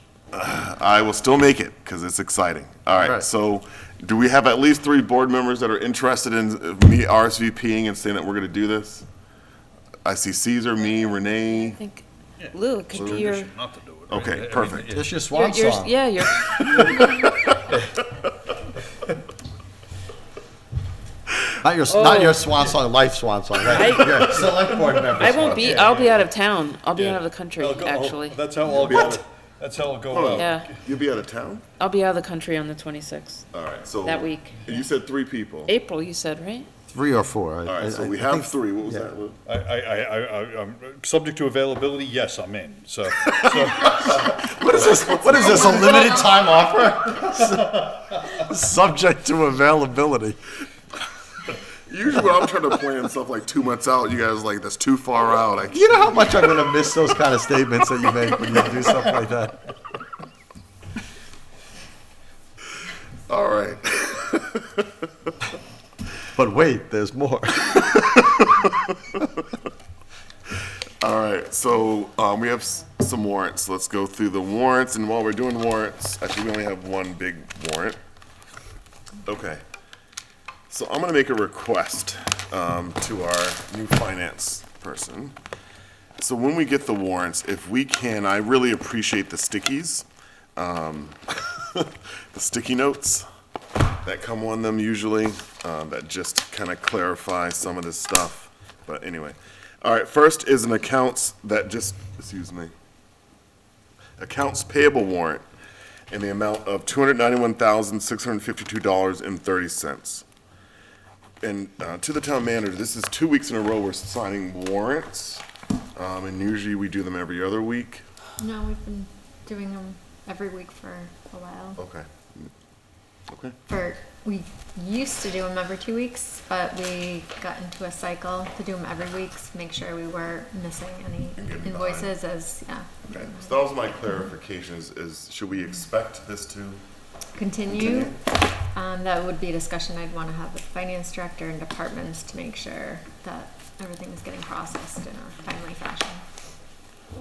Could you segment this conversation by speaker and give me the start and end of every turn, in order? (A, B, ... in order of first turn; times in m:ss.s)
0:00.3-0:09.0 A
0:02.9-0:03.2 B
0:10.0-0:11.8 A
0:11.5-0:13.5 C
0:12.4-0:15.2 D
0:13.0-0:13.3 A
0:14.1-0:14.9 A
0:14.9-0:16.0 B
0:15.3-0:17.3 C
0:16.4-0:17.8 A
0:21.6-0:25.8 B
0:21.9-0:22.5 C
0:23.7-0:24.4 C
0:24.2-0:26.3 D
0:25.1-0:28.5 C
0:26.9-0:30.8 D
0:28.7-0:29.2 A
0:30.1-0:31.6 A
0:30.3-0:30.6 C
0:31.8-0:33.4 C
0:33.5-0:35.7 A
0:34.0-0:34.6 C
0:35.6-0:36.7 C
0:36.9-0:39.1 B
0:37.6-0:39.4 A
0:39.5-0:44.4 D
0:43.2-0:43.5 A
0:43.8-0:50.4 B
0:44.9-0:45.6 D
0:45.0-0:46.1 A
0:45.3-0:46.4 E
0:51.9-0:56.6 A
0:55.7-0:59.7 B
1:03.3-1:04.9 A
1:06.3-1:07.9 B
1:07.7-1:08.7 A
1:11.0-1:18.0 A
1:19.2-1:19.6 A
1:20.7-1:25.3 A
1:26.2-1:33.2 A
1:34.0-1:42.7 A
1:44.2-1:45.4 A
1:46.1-1:50.2 A
1:51.4-1:55.4 A
1:56.0-1:58.0 A
1:58.4-2:01.8 E
2:01.8-2:02.5 A
2:03.3-2:03.6 A
2:03.7-2:14.3 E
2:11.4-2:12.1 A
2:13.1-2:16.8 A
2:17.4-2:26.2 E
2:17.7-2:18.2 A